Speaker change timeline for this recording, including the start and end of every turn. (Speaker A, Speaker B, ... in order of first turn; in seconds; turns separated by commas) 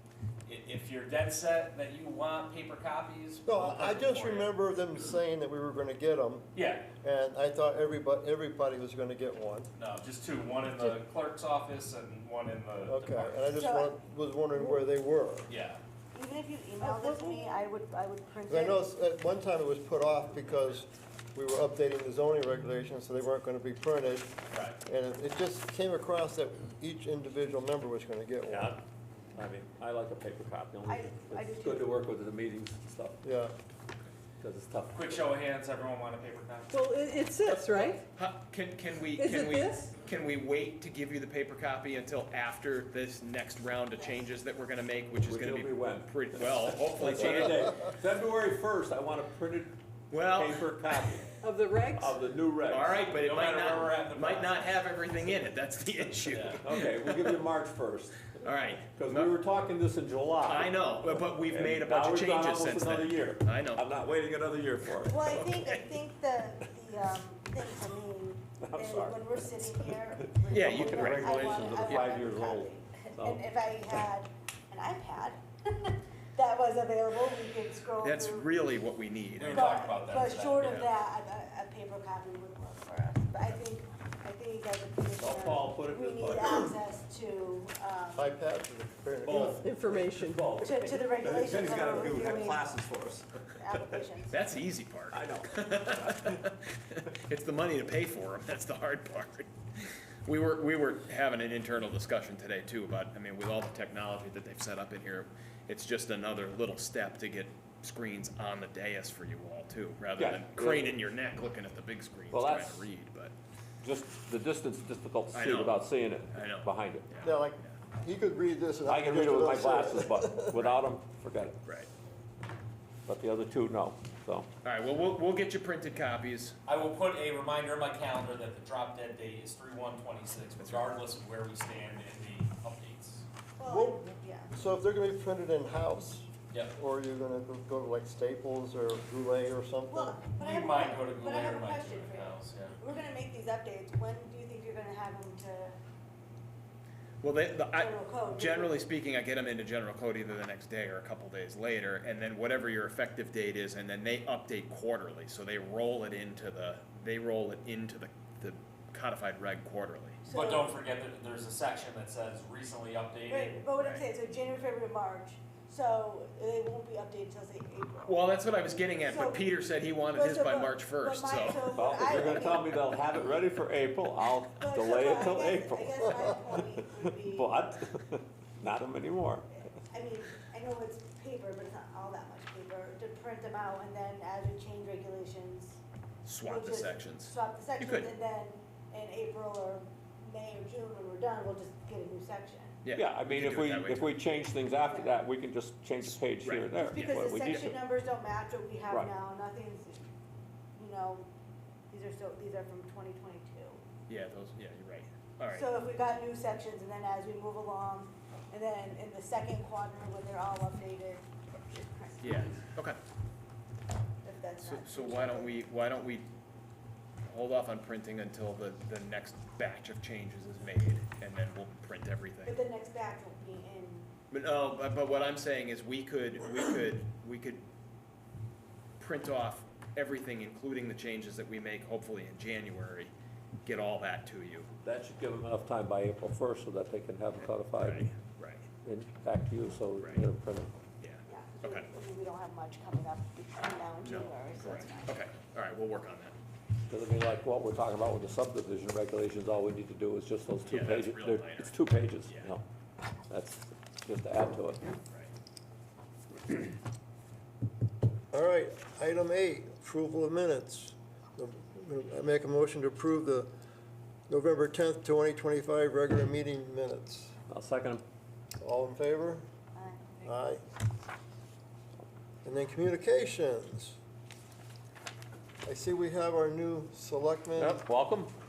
Speaker A: 0.4-5.1, Speaker B: 3.5-6.5, Speaker A: 6.5-6.9, Speaker B: 7.0-9.7, Speaker A: 9.8-13.3, Speaker B: 12.8-15.5, Speaker C: 13.5-13.9, Speaker A: 15.5-15.8, Speaker C: 16.1-18.8, Speaker B: 18.5-24.3, Speaker A: 24.5-24.8, Speaker B: 24.8-28.8, Speaker D: 28.5-28.8, Speaker D: 29.3-33.2, Speaker C: 30.8-32.0, Speaker B: 33.2-33.5, Speaker D: 34.4-35.3, Speaker A: 34.9-36.8, Speaker E: 36.7-38.0, Speaker F: 38.1-47.8, Speaker E: 39.1-39.9, Speaker D: 45.2-51.3, Speaker F: 50.1-50.7, Speaker E: 51.4-52.1, Speaker D: 51.9-53.0, Speaker F: 52.7-57.4, Speaker A: 53.1-54.7, Speaker A: 56.2-56.6, Speaker D: 56.6-65.2, Speaker F: 58.4-59.4, Speaker F: 60.4-63.8, Speaker C: 65.0-78.5, Speaker F: 65.2-65.9, Speaker D: 68.6-74.0, Speaker F: 70.5-72.1, Speaker F: 78.0-79.8, Speaker A: 79.3-80.7, Speaker C: 79.5-88.3, Speaker F: 80.6-80.9, Speaker D: 85.2-86.8, Speaker B: 88.1-89.7, Speaker D: 89.2-93.9, Speaker E: 89.5-90.6, Speaker C: 90.6-92.8, Speaker C: 93.5-94.3, Speaker F: 94.3-113.3, Speaker D: 95.1-96.4, Speaker D: 110.2-110.9, Speaker D: 112.3-112.9, Speaker D: 113.8-117.0, Speaker F: 115.3-117.8, Speaker B: 117.2-120.6, Speaker D: 118.8-121.6, Speaker D: 123.0-124.5, Speaker F: 124.6-126.6, Speaker A: 126.7-133.2, Speaker C: 133.6-134.5, Speaker B: 133.7-140.2, Speaker C: 139.9-145.8, Speaker A: 140.4-142.8, Speaker F: 147.2-160.2, Speaker C: 147.8-148.8, Speaker C: 160.2-160.7, Speaker A: 160.3-163.6, Speaker C: 163.3-168.3, Speaker F: 163.8-164.1, Speaker F: 168.0-171.7, Speaker C: 169.0-169.5, Speaker C: 170.1-173.2, Speaker D: 171.7-179.5, Speaker C: 174.5-177.8, Speaker C: 179.6-185.8, Speaker F: 186.2-188.1, Speaker C: 186.4-192.8, Speaker F: 192.8-194.2, Speaker D: 192.9-197.8, Speaker C: 194.8-195.2, Speaker F: 196.4-197.7, Speaker C: 196.8-200.1, Speaker C: 200.8-201.3, Speaker C: 201.9-203.8, Speaker F: 204.1-205.7, Speaker C: 205.5-212.6, Speaker F: 212.2-213.0, Speaker C: 214.2-215.6, Speaker F: 214.6-216.3, Speaker F: 217.2-222.6, Speaker C: 222.4-224.1, Speaker F: 224.3-227.6, Speaker F: 229.0-233.1, Speaker F: 233.6-234.7, Speaker D: 234.8-238.1, Speaker F: 237.4-238.7, Speaker D: 238.8-240.7, Speaker F: 240.0-240.2, Speaker F: 241.0-241.9, Speaker C: 241.3-245.2, Speaker F: 244.0-246.3, Speaker D: 246.9-252.6, Speaker F: 250.7-251.7, Speaker F: 252.2-252.5, Speaker D: 253.3-254.8, Speaker B: 258.3-263.5, Speaker B: 264.3-267.3, Speaker D: 267.5-268.0, Speaker B: 268.6-269.4, Speaker C: 269.8-270.4, Speaker B: 270.2-270.6, Speaker B: 272.4-274.0, Speaker B: 275.6-277.8, Speaker D: 277.6-278.3